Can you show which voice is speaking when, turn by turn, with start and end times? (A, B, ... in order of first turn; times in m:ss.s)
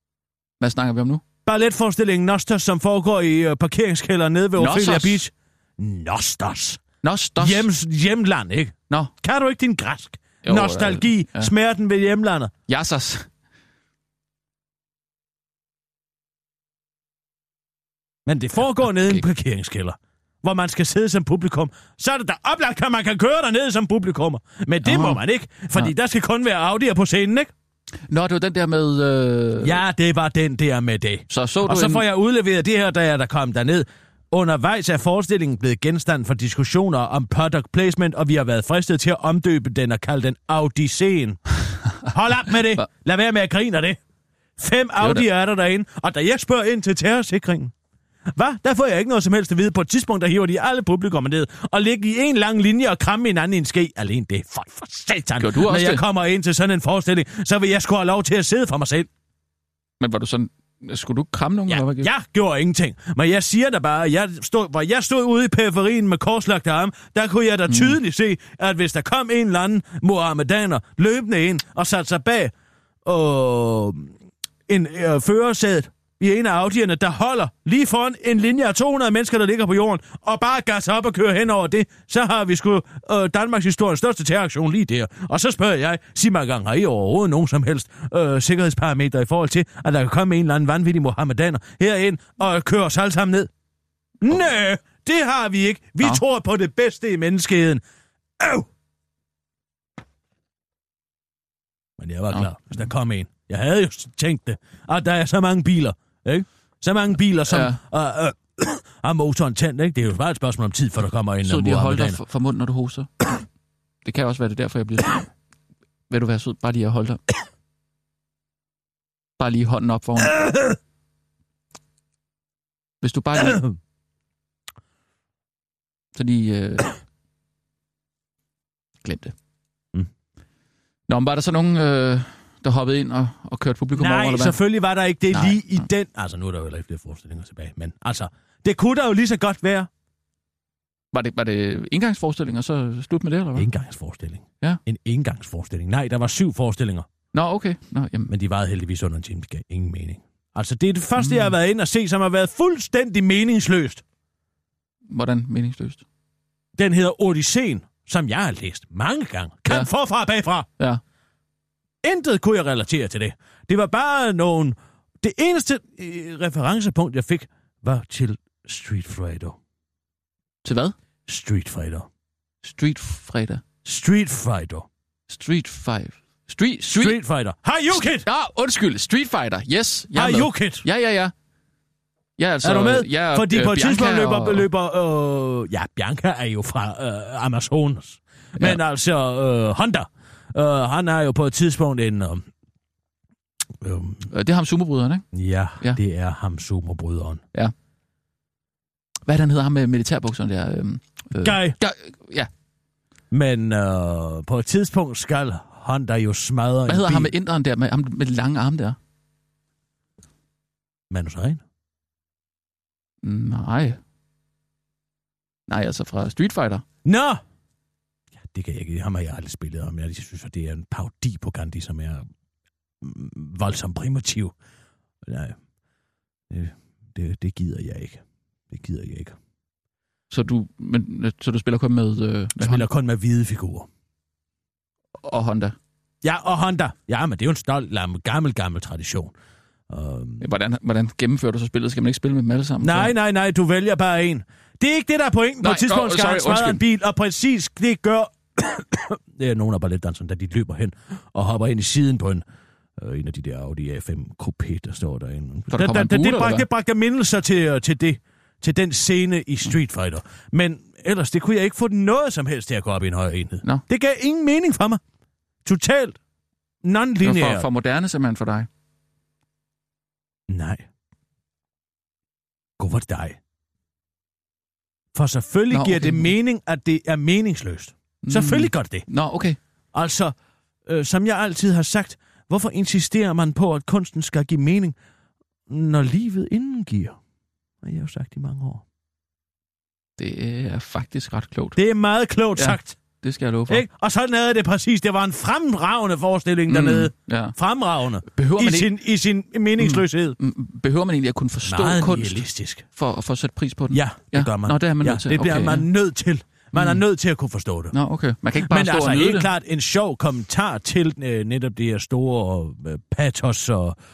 0:00.6-0:01.2 A
0:01.4-0:06.8 B
0:04.6-0:05.2 A
0:07.0-0:07.7 A
0:07.4-0:12.5 B
0:10.4-0:11.5 A
0:12.7-0:13.3 A
0:18.2-0:27.5 B
0:24.8-0:25.2 A
0:28.1-0:29.8 A
0:29.6-0:41.4 B
0:31.3-0:32.0 A
0:42.0-0:44.0 B
0:44.6-0:47.7 B
0:45.0-0:45.2 A
0:48.3-0:59.1 B
0:55.4-0:56.0 A
1:00.0-1:02.1 A
1:01.7-1:12.5 B
1:07.7-1:08.0 A
1:13.0-1:14.1 B
1:14.7-1:33.5 B
1:34.2-1:37.8 B
1:38.4-1:38.7 B
1:42.0-1:52.2 B
1:47.5-1:47.8 A
1:51.4-1:53.1 A
1:54.0-1:55.3 A
1:56.1-1:57.2 A
1:59.4-2:00.4 A
2:03.0-2:03.7 A
2:03.4-2:03.7 B
2:06.1-2:06.9 A
2:09.0-2:09.4 A
2:11.1-2:14.6 A
2:13.9-2:19.9 B
2:15.3-2:15.8 A
2:21.1-2:23.7 A
2:23.6-2:27.1 B
2:27.3-2:28.3 A
2:28.3-2:34.0 B
2:31.2-2:31.5 A
2:35.1-2:36.0 A
2:36.8-2:40.7 B
2:42.0-2:49.6 B
2:50.6-2:51.0 A
2:51.3-2:52.1 B
2:52.6-2:53.6 A
2:53.8-2:54.9 B
2:55.3-2:57.2 A
2:56.9-2:58.3 B
2:58.1-3:01.3 A
3:00.1-3:00.8 B
3:02.4-3:04.7 A
3:02.6-3:12.4 B
3:13.8-3:14.3 B
3:14.3-3:15.3 A
3:15.3-3:17.4 B
3:19.2-3:22.5 A
3:21.4-3:21.8 B
3:23.3-3:27.3 B
3:26.9-3:29.0 A
3:31.1-3:31.6 B
3:33.2-3:34.0 A
3:35.7-3:36.8 A
3:37.0-3:37.4 B
3:38.4-3:42.2 B
3:43.0-3:44.5 B
3:45.2-3:45.6 B
3:46.5-3:49.4 B
3:50.3-3:52.9 A
3:52.6-3:53.9 B
3:55.2-3:55.8 A
3:56.2-3:59.3 B
3:59.9-4:00.4 B
4:00.4-4:03.1 A
4:02.8-4:12.4 B
4:05.6-4:06.8 A
4:13.0-4:25.0 B
4:15.7-4:16.7 A
4:25.6-4:26.2 B
4:26.8-4:27.7 B
4:27.2-4:28.7 A
4:30.5-4:30.8 B
4:32.8-4:33.4 B
4:35.1-4:39.1 B
4:35.7-4:36.3 A
4:38.2-4:39.6 A
4:39.9-4:40.3 B
4:40.8-4:45.0 B
4:45.7-4:47.2 B
4:47.8-4:48.8 B
4:50.2-4:51.8 A
4:51.8-4:53.0 B
4:52.6-4:53.8 A
4:53.7-5:00.4 B
4:56.7-4:57.6 A
4:58.3-4:58.9 A
4:59.8-5:05.9 A
5:01.6-5:02.8 B
5:03.9-5:07.9 B
5:06.7-5:07.0 A
5:07.9-5:09.5 A
5:08.6-5:14.0 B